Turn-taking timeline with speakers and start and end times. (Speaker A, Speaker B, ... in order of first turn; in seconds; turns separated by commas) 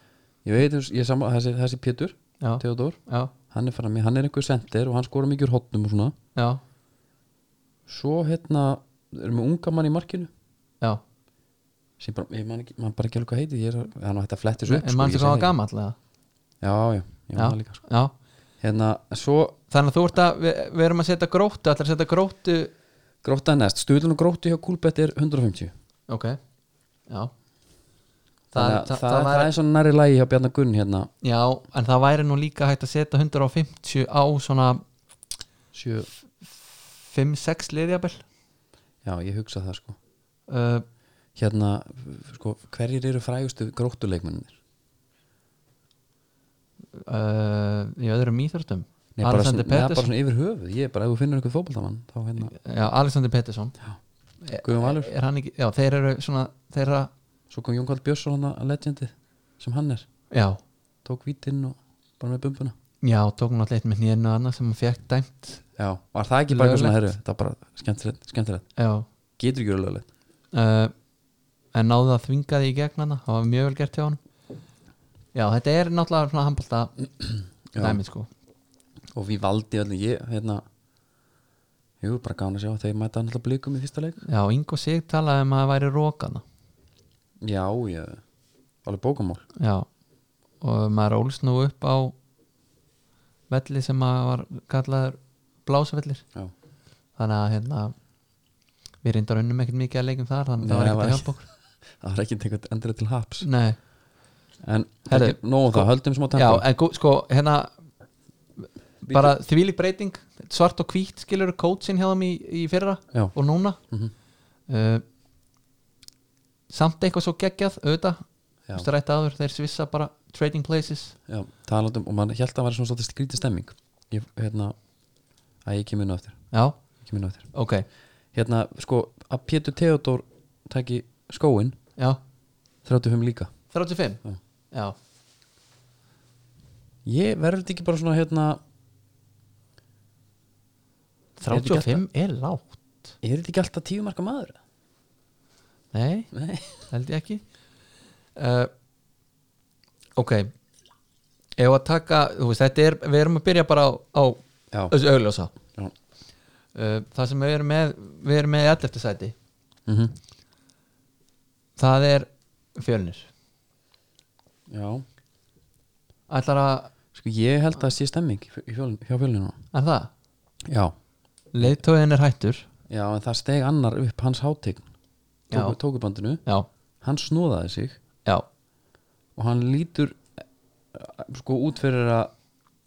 Speaker A: 0.4-3.0, Speaker B: 2.4-3.3, Speaker A: 3.5-6.1, Speaker B: 6.3-6.6, Speaker A: 7.9-10.3, Speaker A: 12.0-15.5, Speaker B: 14.7-15.9, Speaker A: 16.6-17.8, Speaker B: 17.4-18.1, Speaker A: 18.6-19.6, Speaker B: 19.7-22.7, Speaker A: 23.2-25.7, Speaker B: 26.1-26.4, Speaker B: 28.5-29.5, Speaker A: 28.5-31.1, Speaker B: 31.2-34.8, Speaker A: 35.7-36.1, Speaker B: 36.4-38.2, Speaker A: 39.0-40.0, Speaker B: 40.5-40.8, Speaker A: 41.4-44.5, Speaker B: 46.9-50.1, Speaker A: 49.1-52.5, Speaker B: 52.4-53.7, Speaker B: 54.4-57.1, Speaker A: 54.5-55.1, Speaker A: 57.5-60.0, Speaker B: 60.3-60.6, Speaker A: 61.0-62.7, Speaker B: 63.0-65.6, Speaker A: 65.8-68.7, Speaker B: 66.5-67.0, Speaker B: 68.8-69.0, Speaker A: 69.4-70.1, Speaker B: 70.5-70.9, Speaker B: 71.7-74.2, Speaker B: 75.3-76.9, Speaker A: 77.7-78.0, Speaker B: 77.8-78.3, Speaker A: 79.1-80.6, Speaker A: 82.0-84.2, Speaker B: 84.2-86.4, Speaker A: 87.4-88.2, Speaker A: 88.8-89.4, Speaker B: 89.6-89.8, Speaker B: 90.6-92.1, Speaker B: 93.5-96.2, Speaker B: 97.2-97.9, Speaker B: 99.0-101.4, Speaker A: 100.6-101.3, Speaker A: 102.0-103.5, Speaker B: 103.4-103.8, Speaker A: 104.6-106.6, Speaker B: 105.1-107.7, Speaker B: 109.0-113.8, Speaker A: 109.0-109.3, Speaker B: 114.7-115.0, Speaker B: 116.7-118.2, Speaker B: 118.7-121.1, Speaker A: 121.3-124.7, Speaker A: 125.6-126.3, Speaker A: 127.0-127.5, Speaker B: 127.5-127.8, Speaker A: 128.3-131.8, Speaker A: 132.8-133.5, Speaker B: 133.7-134.9, Speaker A: 137.0-138.6, Speaker B: 141.4-143.1, Speaker A: 141.5-142.0, Speaker A: 143.2-144.6, Speaker B: 145.9-146.3, Speaker A: 146.3-146.8, Speaker B: 146.9-147.4, Speaker B: 148.3-148.7, Speaker B: 150.2-150.5, Speaker B: 151.6-155.5, Speaker B: 156.7-159.3, Speaker A: 159.9-160.1, Speaker B: 161.8-163.3, Speaker A: 164.7-165.0, Speaker B: 166.3-166.9, Speaker A: 167.1-169.6, Speaker B: 169.7-170.1, Speaker A: 170.7-170.9, Speaker B: 171.5-172.7, Speaker A: 172.9-174.8, Speaker B: 175.5-175.8, Speaker A: 175.5-176.4, Speaker A: 177.0-178.0, Speaker A: 179.3-180.3, Speaker A: 180.9-182.3